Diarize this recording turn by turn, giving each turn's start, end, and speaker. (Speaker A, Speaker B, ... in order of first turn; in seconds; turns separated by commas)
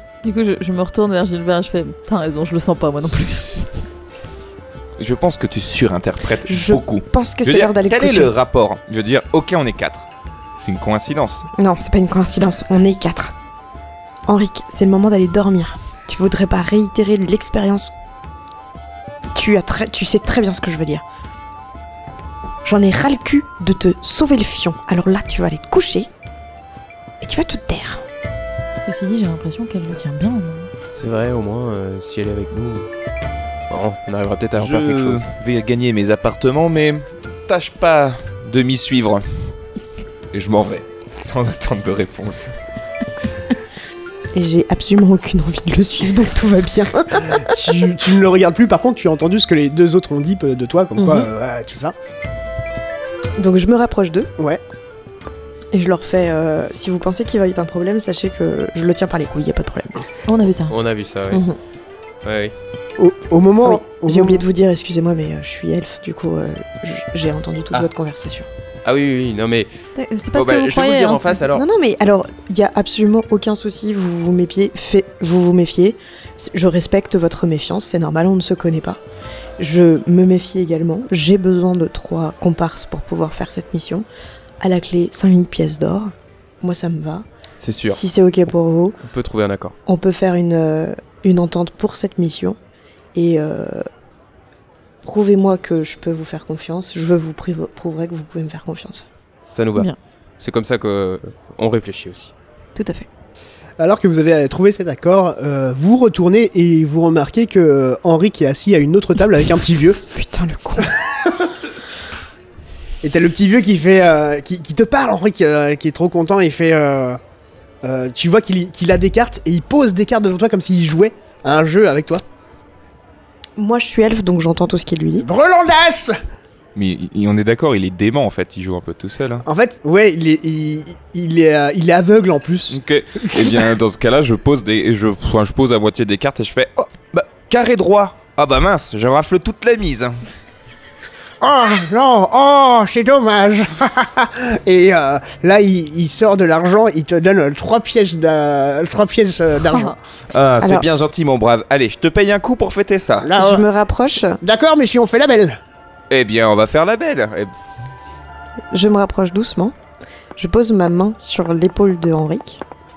Speaker A: 0.2-3.7, Speaker B: 5.0-10.1, Speaker C: 6.5-8.3, Speaker B: 10.6-11.5, Speaker C: 11.6-13.3, Speaker C: 14.3-17.9, Speaker C: 19.3-21.0, Speaker C: 22.6-26.1, Speaker C: 27.2-28.0, Speaker A: 28.8-30.7, Speaker D: 30.9-32.9, Speaker D: 33.7-35.3, Speaker B: 34.6-39.2, Speaker B: 40.3-42.5, Speaker C: 44.3-47.5, Speaker E: 47.4-52.0, Speaker C: 51.0-51.3, Speaker C: 53.4-54.3, Speaker C: 55.7-60.0, Speaker A: 60.3-60.8, Speaker D: 60.7-61.5, Speaker C: 61.3-61.6, Speaker D: 62.2-62.5, Speaker E: 63.0-64.5, Speaker C: 63.6-68.5, Speaker D: 68.8-69.7, Speaker A: 70.0-71.4, Speaker D: 70.3-71.7, Speaker C: 71.5-79.0, Speaker C: 79.6-84.1, Speaker C: 84.6-87.3, Speaker D: 87.6-88.0, Speaker C: 87.9-89.0, Speaker D: 89.0-89.8, Speaker C: 89.9-92.6, Speaker C: 93.2-93.9, Speaker C: 95.0-99.0, Speaker D: 99.5-99.9, Speaker D: 100.4-102.3, Speaker A: 102.8-103.1, Speaker E: 103.8-110.0, Speaker C: 110.1-111.0, Speaker E: 111.0-111.5, Speaker E: 113.0-117.2, Speaker E: 117.8-122.2, Speaker C: 123.6-125.3, Speaker E: 125.2-126.2, Speaker B: 126.8-129.4, Speaker E: 129.4-133.7, Speaker B: 132.7-140.2, Speaker E: 141.4-150.0, Speaker A: 149.7-150.0, Speaker B: 150.3-153.3, Speaker E: 153.2-153.7, Speaker C: 153.4-154.4, Speaker E: 154.4-155.6, Speaker B: 156.1-157.5, Speaker C: 158.7-159.8, Speaker C: 160.4-162.6